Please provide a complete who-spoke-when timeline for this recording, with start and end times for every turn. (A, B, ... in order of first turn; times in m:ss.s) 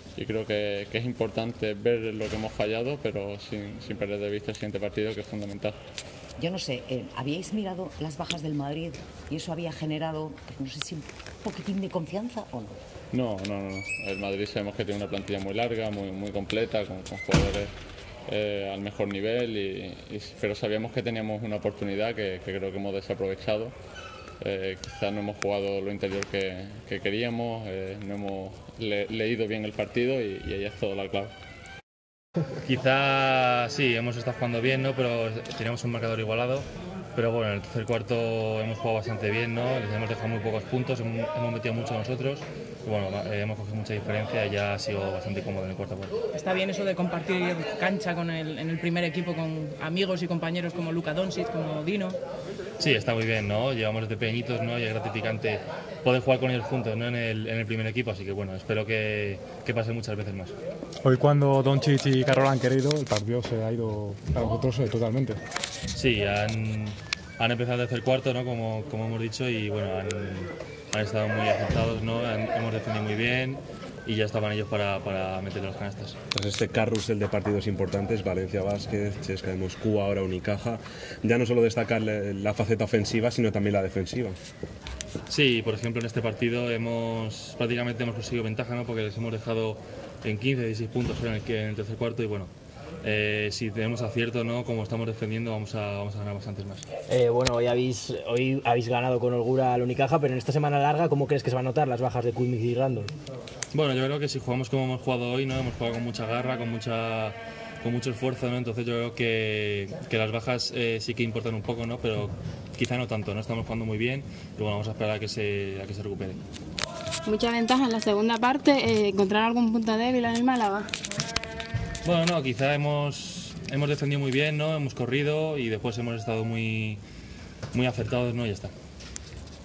0:00.2-0:05.8 A
0:06.4-0:12.8 B
0:13.1-0:17.7 A
0:18.3-0:23.8 A
0:24.4-0:31.3 A
0:32.6-0:46.1 C
0:46.4-0:52.2 D
0:52.8-1:00.5 C
1:01.0-1:05.4 E
1:05.9-1:16.2 C
1:16.3-1:24.4 F
1:25.3-1:32.5 C
1:33.0-1:36.8 C
1:37.1-1:43.0 G
1:43.7-1:56.4 C
1:57.2-2:00.9 H
2:02.0-2:07.0 C
2:07.7-2:08.7 C